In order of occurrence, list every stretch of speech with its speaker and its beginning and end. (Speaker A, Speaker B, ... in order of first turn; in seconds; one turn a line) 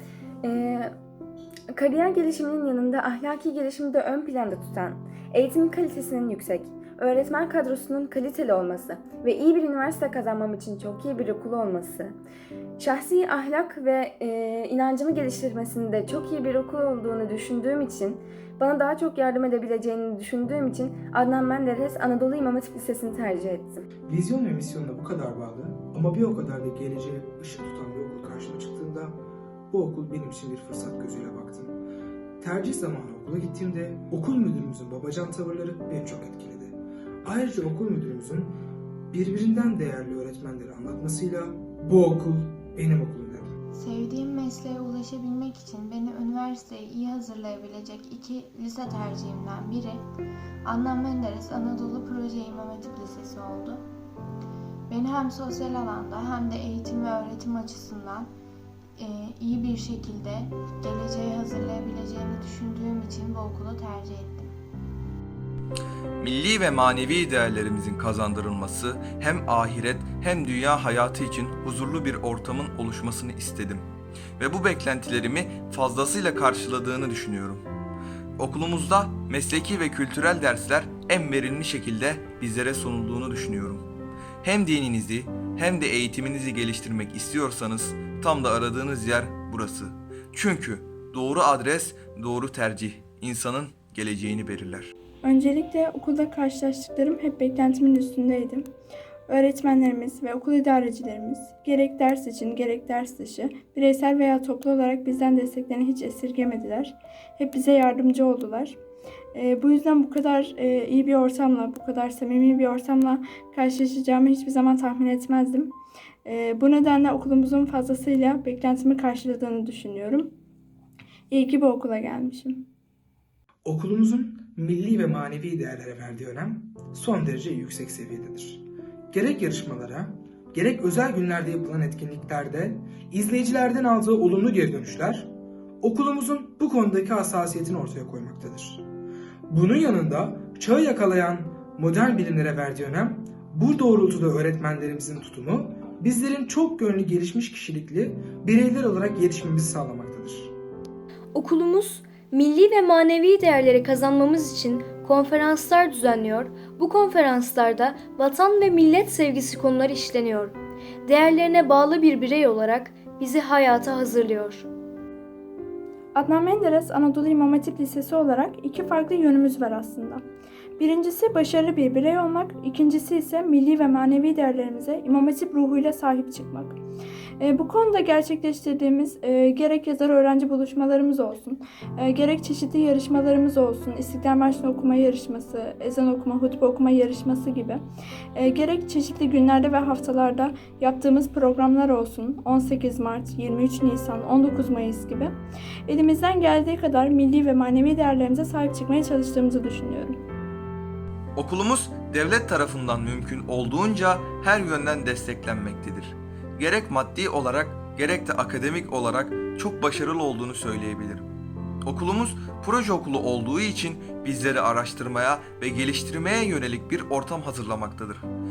Speaker A: 0.4-0.9
Speaker A: 1.7-12.2
Speaker A: 12.8-23.8
Speaker B: 24.1-29.2
Speaker B: 29.7-31.8
Speaker B: 32.4-38.6
Speaker B: 39.1-43.5
Speaker C: 43.7-50.0
Speaker C: 50.6-53.8
Speaker C: 54.9-58.3
Speaker C: 59.0-64.5
Speaker D: 66.2-77.7
Speaker D: 78.4-83.9
Speaker D: 84.4-94.9
Speaker E: 95.2-98.7
Speaker E: 99.3-108.8
Speaker E: 109.3-115.7
Speaker E: 116.2-120.3
Speaker E: 121.3-122.7
Speaker B: 123.7-135.3
Speaker B: 135.8-138.9
Speaker B: 139.5-150.6
Speaker F: 151.3-160.6
Speaker F: 161.1-164.7
Speaker E: 166.2-170.2
Speaker E: 170.8-176.8
Speaker E: 177.4-187.8
Speaker E: 188.3-195.3
Speaker E: 195.9-200.2
Speaker D: 201.4-211.3
Speaker D: 211.8-218.3